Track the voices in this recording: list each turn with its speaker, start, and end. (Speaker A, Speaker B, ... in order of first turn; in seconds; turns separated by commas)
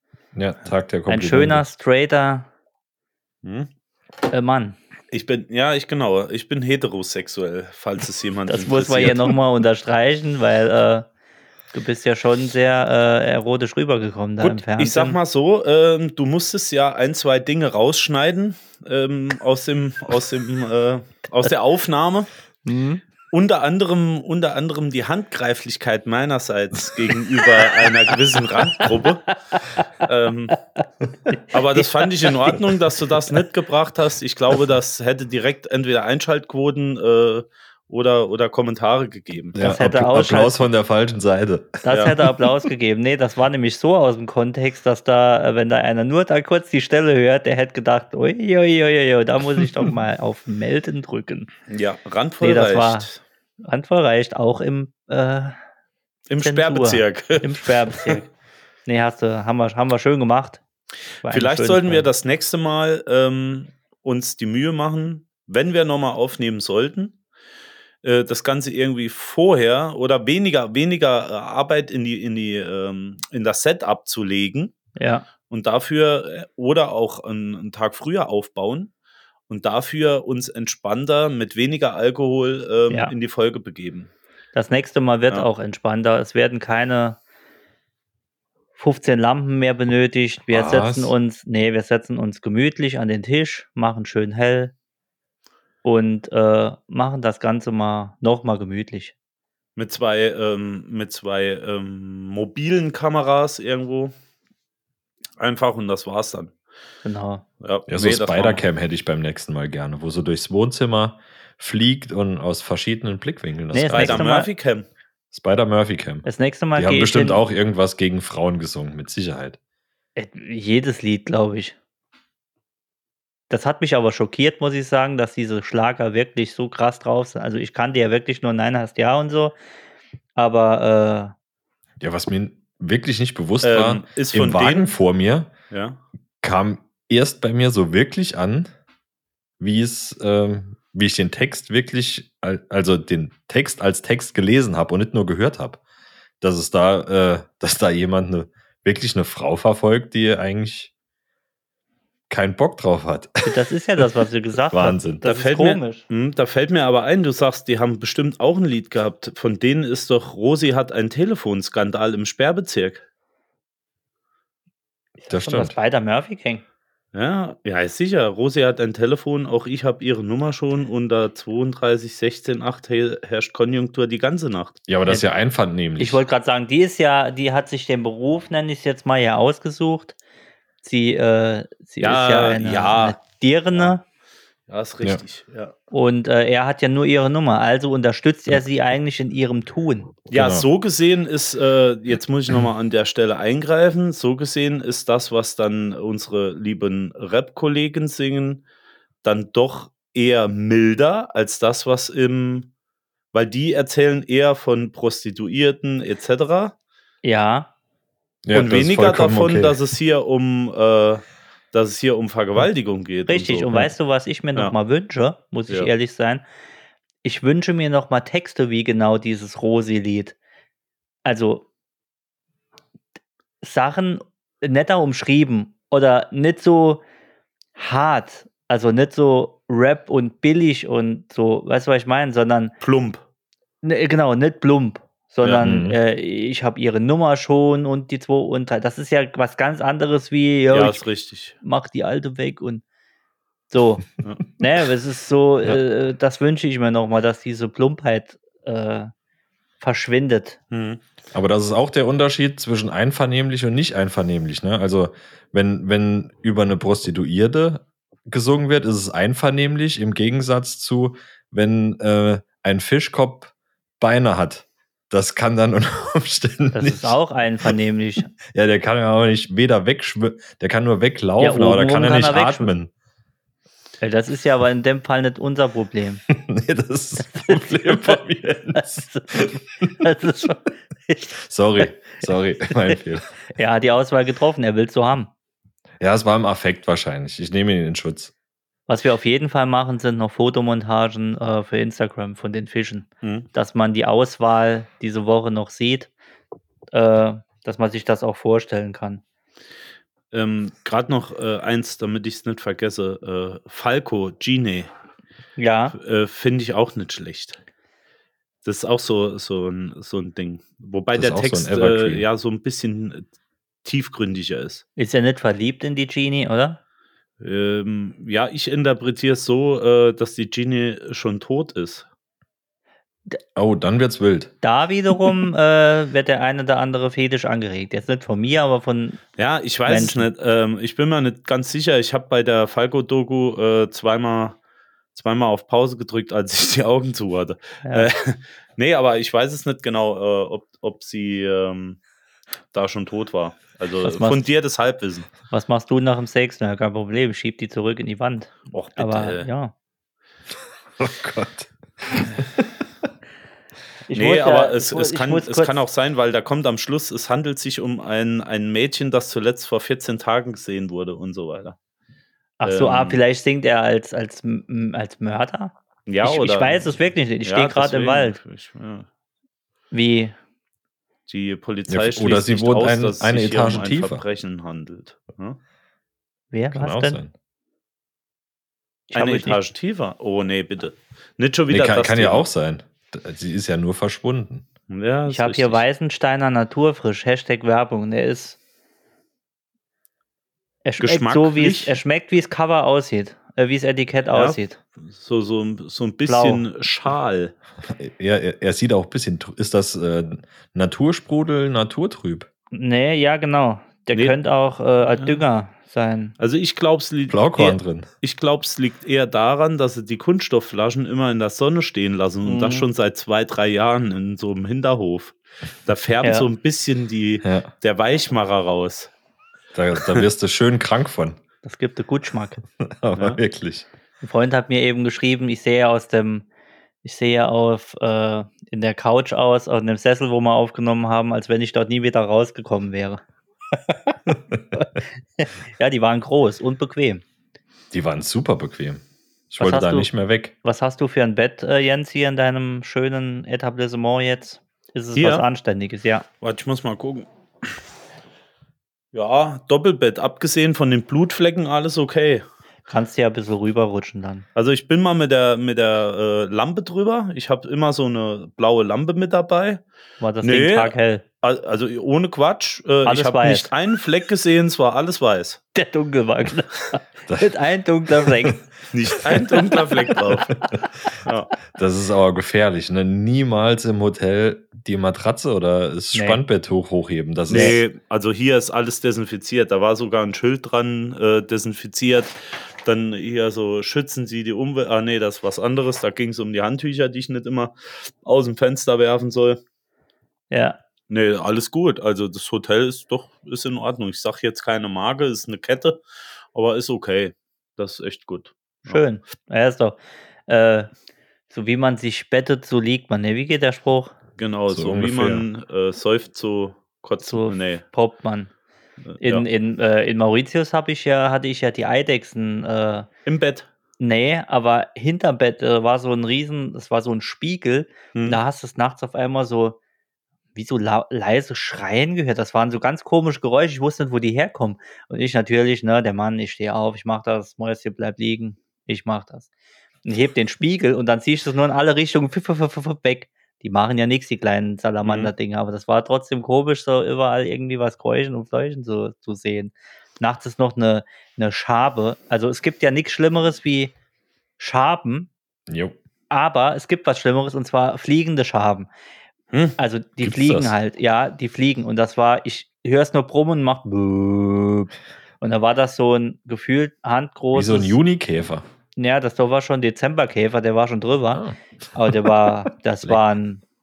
Speaker A: 0.3-1.7, Speaker B: 1.1-2.5, Speaker C: 3.4-3.7, Speaker B: 4.3-4.8, Speaker C: 5.1-9.4, Speaker B: 8.5-11.1, Speaker B: 11.7-15.2, Speaker C: 14.4-22.3, Speaker B: 22.7-23.0, Speaker C: 23.3-29.4, Speaker C: 30.0-30.6, Speaker B: 31.3-31.9, Speaker C: 31.5-39.6, Speaker A: 39.5-42.1, Speaker B: 39.6-40.6, Speaker B: 41.9-51.5, Speaker C: 41.9-42.1, Speaker C: 51.7-53.2, Speaker B: 52.4-53.1, Speaker B: 53.6-55.6, Speaker C: 56.3-58.2, Speaker B: 56.4-58.2, Speaker B: 58.9-60.6, Speaker B: 61.2-62.1, Speaker C: 61.3-67.2, Speaker C: 68.0-74.8, Speaker B: 75.0-75.3, Speaker C: 75.5-78.9, Speaker C: 79.5-84.1, Speaker B: 82.9-83.1, Speaker B: 84.5-87.2, Speaker B: 88.8-94.7, Speaker A: 90.5-91.1, Speaker B: 95.8-99.1, Speaker C: 99.8-104.1, Speaker C: 105.4-106.5, Speaker B: 107.0-107.4, Speaker C: 107.6-108.6, Speaker A: 107.9-114.2, Speaker B: 113.7-114.5, Speaker C: 113.9-114.8, Speaker A: 115.3-119.6, Speaker B: 116.2-117.4, Speaker B: 120.2-121.8, Speaker B: 123.5-129.6, Speaker B: 130.4-131.3, Speaker A: 132.0-135.5, Speaker C: 133.6-134.9, Speaker C: 135.7-136.0, Speaker A: 136.4-138.7, Speaker A: 139.6-145.8, Speaker A: 146.4-150.9, Speaker A: 152.3-154.0, Speaker B: 153.5-156.0, Speaker A: 154.7-155.2, Speaker C: 155.2-163.0, Speaker B: 165.2-166.6, Speaker A: 165.3-165.8, Speaker C: 167.1-174.8, Speaker A: 174.9-176.2, Speaker B: 176.0-180.2, Speaker B: 180.8-184.0, Speaker C: 182.0-183.2, Speaker C: 184.7-185.7, Speaker B: 185.9-190.1, Speaker C: 190.3-198.6, Speaker A: 190.3-190.7, Speaker C: 199.2-202.7, Speaker C: 203.3-206.7, Speaker B: 207.2-207.7, Speaker A: 208.4-209.8, Speaker C: 208.5-213.9, Speaker B: 213.3-216.4, Speaker B: 217.2-220.3, Speaker B: 221.2-221.7, Speaker B: 223.6-227.0, Speaker B: 227.8-232.7, Speaker C: 232.8-233.2, Speaker B: 233.8-241.0, Speaker A: 235.6-236.0, Speaker C: 240.7-241.6, Speaker B: 241.6-242.8, Speaker B: 243.7-244.1, Speaker B: 244.6-249.1, Speaker B: 249.8-250.6, Speaker C: 250.7-251.0, Speaker A: 251.3-267.2, Speaker B: 266.7-268.3, Speaker A: 268.5-272.9, Speaker B: 271.4-272.7, Speaker B: 274.0-276.2, Speaker A: 276.3-279.5, Speaker B: 277.3-278.2, Speaker B: 278.7-281.9, Speaker A: 281.4-283.3, Speaker B: 282.7-282.9, Speaker B: 283.5-285.3, Speaker A: 286.0-288.3, Speaker B: 288.9-296.1, Speaker C: 293.2-293.5, Speaker B: 296.9-299.2, Speaker C: 300.3-304.9, Speaker B: 305.6-305.9, Speaker C: 305.9-307.6, Speaker C: 308.6-313.3, Speaker A: 311.1-312.3, Speaker C: 313.8-314.8, Speaker B: 315.0-316.8, Speaker C: 317.4-322.1, Speaker A: 323.6-324.5, Speaker B: 324.6-329.2, Speaker C: 329.4-334.6, Speaker B: 329.9-330.3, Speaker C: 335.1-342.0, Speaker B: 337.9-338.1, Speaker C: 342.7-345.3, Speaker B: 344.0-344.4, Speaker B: 345.5-349.7, Speaker C: 348.7-349.5, Speaker A: 351.0-352.7, Speaker B: 354.1-355.7, Speaker C: 354.1-361.8, Speaker B: 362.6-368.4, Speaker C: 362.6-363.2, Speaker C: 366.1-369.1, Speaker B: 369.9-370.4, Speaker C: 371.3-375.6, Speaker A: 371.9-374.2, Speaker B: 376.5-377.2, Speaker A: 376.7-377.3, Speaker B: 379.1-379.6, Speaker C: 379.1-382.5, Speaker A: 381.7-384.7, Speaker C: 384.9-385.8, Speaker B: 385.3-388.6, Speaker B: 390.9-394.8, Speaker C: 391.0-392.0, Speaker C: 394.3-397.6, Speaker B: 396.3-396.6, Speaker A: 397.9-402.5, Speaker B: 402.7-406.4, Speaker C: 405.2-405.4, Speaker C: 406.4-419.1, Speaker A: 407.3-408.1, Speaker B: 412.4-412.9, Speaker A: 417.4-417.7, Speaker A: 419.7-421.4, Speaker B: 421.6-422.6, Speaker A: 422.8-423.9, Speaker B: 424.2-426.5, Speaker B: 427.0-433.2, Speaker B: 433.9-434.2, Speaker B: 434.7-437.2, Speaker A: 437.9-440.5, Speaker B: 439.6-440.1, Speaker B: 440.6-446.3, Speaker C: 445.1-445.4, Speaker C: 446.4-447.7, Speaker C: 449.1-452.4, Speaker B: 452.9-454.4, Speaker C: 454.6-459.8, Speaker B: 460.2-461.2, Speaker C: 460.4-465.6, Speaker B: 463.1-463.7, Speaker B: 465.8-468.6, Speaker A: 468.2-468.6, Speaker C: 468.9-470.6, Speaker C: 471.2-471.5, Speaker A: 471.7-477.8, Speaker B: 476.1-476.4, Speaker B: 477.5-477.8, Speaker C: 477.5-489.6, Speaker B: 490.5-490.8, Speaker C: 491.1-496.0, Speaker C: 496.5-499.0, Speaker B: 498.9-500.9, Speaker B: 501.5-504.1, Speaker C: 504.4-507.8, Speaker A: 504.7-505.4, Speaker B: 507.2-508.5, Speaker C: 509.1-509.5, Speaker B: 509.2-513.1, Speaker C: 513.3-513.7, Speaker B: 514.0-519.8, Speaker C: 518.1-518.4, Speaker B: 520.5-529.5, Speaker B: 530.0-543.9, Speaker C: 535.0-535.3, Speaker B: 544.6-545.3, Speaker A: 545.7-546.0, Speaker B: 546.3-548.9, Speaker C: 549.5-549.8, Speaker B: 549.8-558.0, Speaker A: 550.2-550.7, Speaker A: 557.5-558.6, Speaker B: 559.0-563.6, Speaker A: 561.3-562.5